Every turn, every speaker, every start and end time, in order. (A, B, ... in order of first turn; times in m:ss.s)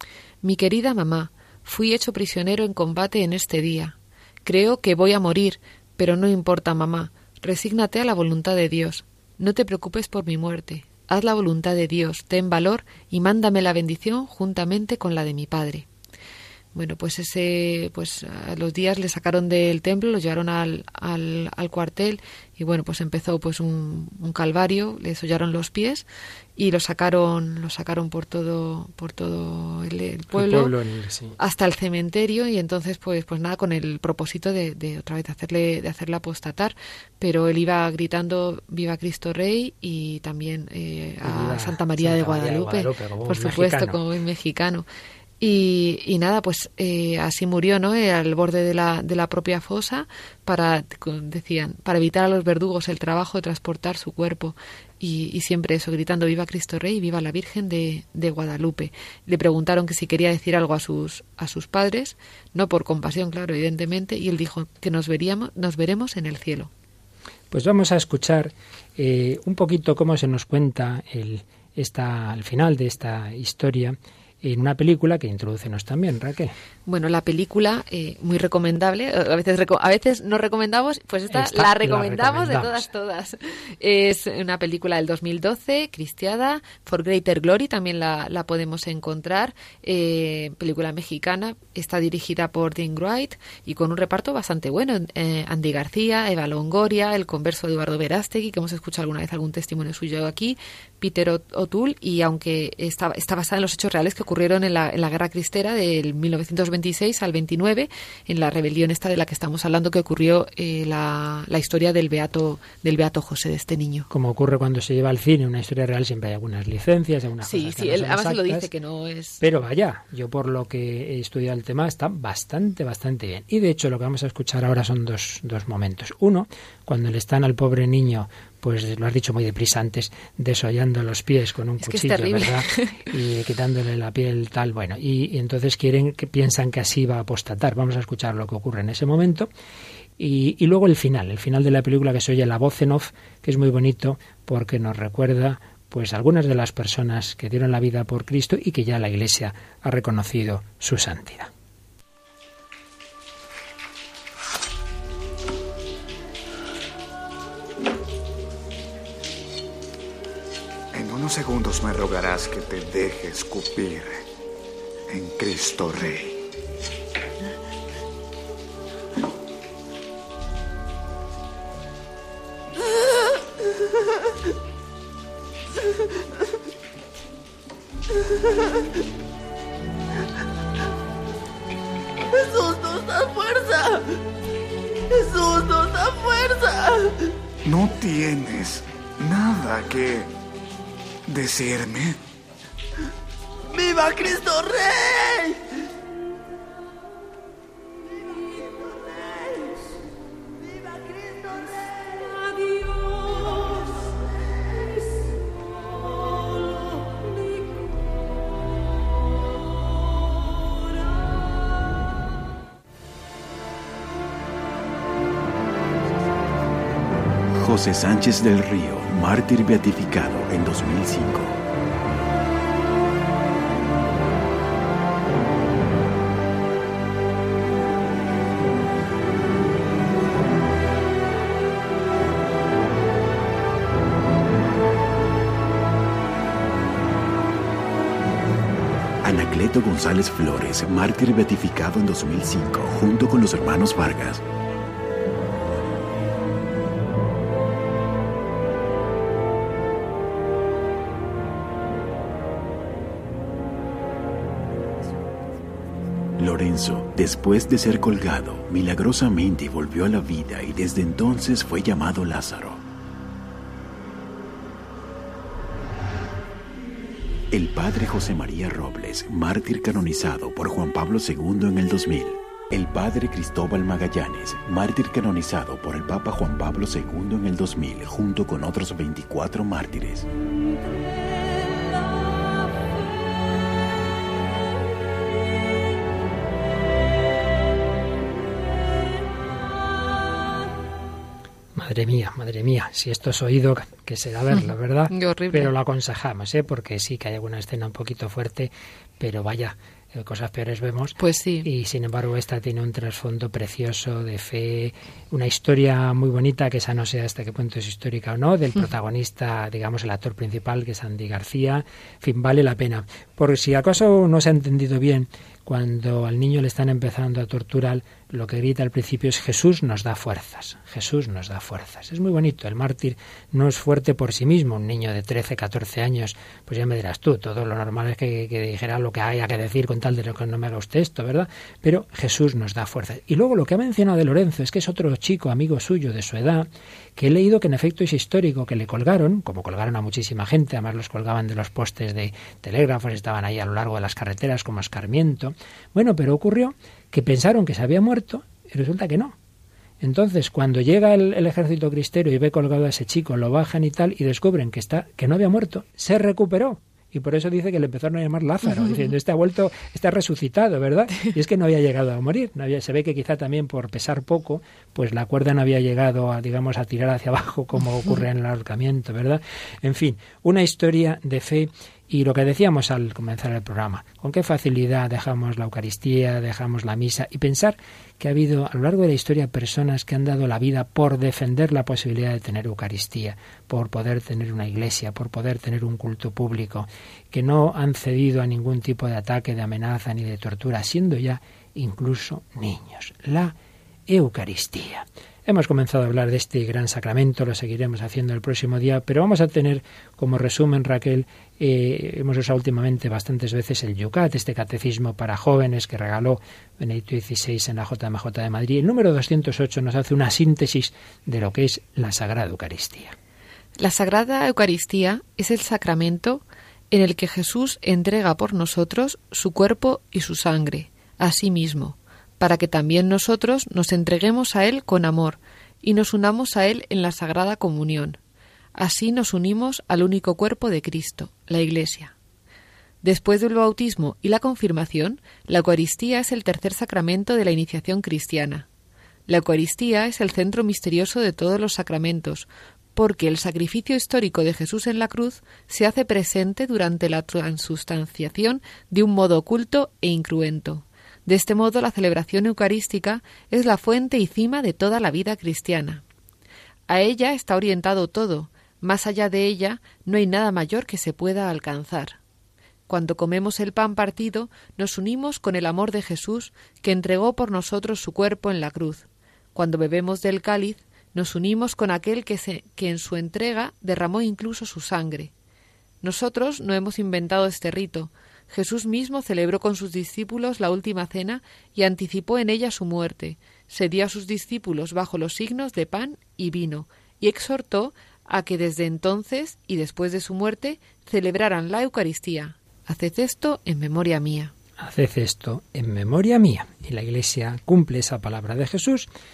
0:00.4-0:15.8 A
0:16.7-0:30.8 A
0:30.3-0:31.4 B
0:31.4-0:44.9 A
0:41.2-0:44.0 B
0:45.4-1:06.7 A
1:07.5-1:16.5 B
1:16.9-1:54.1 A
1:21.3-1:22.9 B
1:54.1-1:58.7 B
1:57.4-1:59.4 A
1:59.4-2:19.5 B
2:11.8-2:13.0 A
2:20.2-2:31.5 B
2:40.9-2:44.1 C
2:45.1-2:46.1 C
2:52.8-2:53.3 D
2:58.3-2:58.8 D
3:02.3-3:04.0 D
3:05.1-3:07.1 D
3:07.7-3:10.3 C
3:11.3-3:12.2 C
3:13.7-3:15.6 D
3:37.5-3:41.6 E
3:59.2-4:04.4 E
4:16.4-4:22.8 E
4:27.5-4:40.3 E
4:51.7-5:49.4 B
4:55.1-4:55.7 A
5:01.2-5:01.7 A
5:50.0-6:33.6 B
6:34.1-6:53.1 B
6:53.8-7:08.2 A
7:08.7-7:12.1 A
7:13.0-7:18.6 A
7:19.3-7:36.0 A
7:36.9-7:42.2 A
7:42.9-7:55.3 A
7:56.0-8:14.5 A
8:14.8-8:19.1 B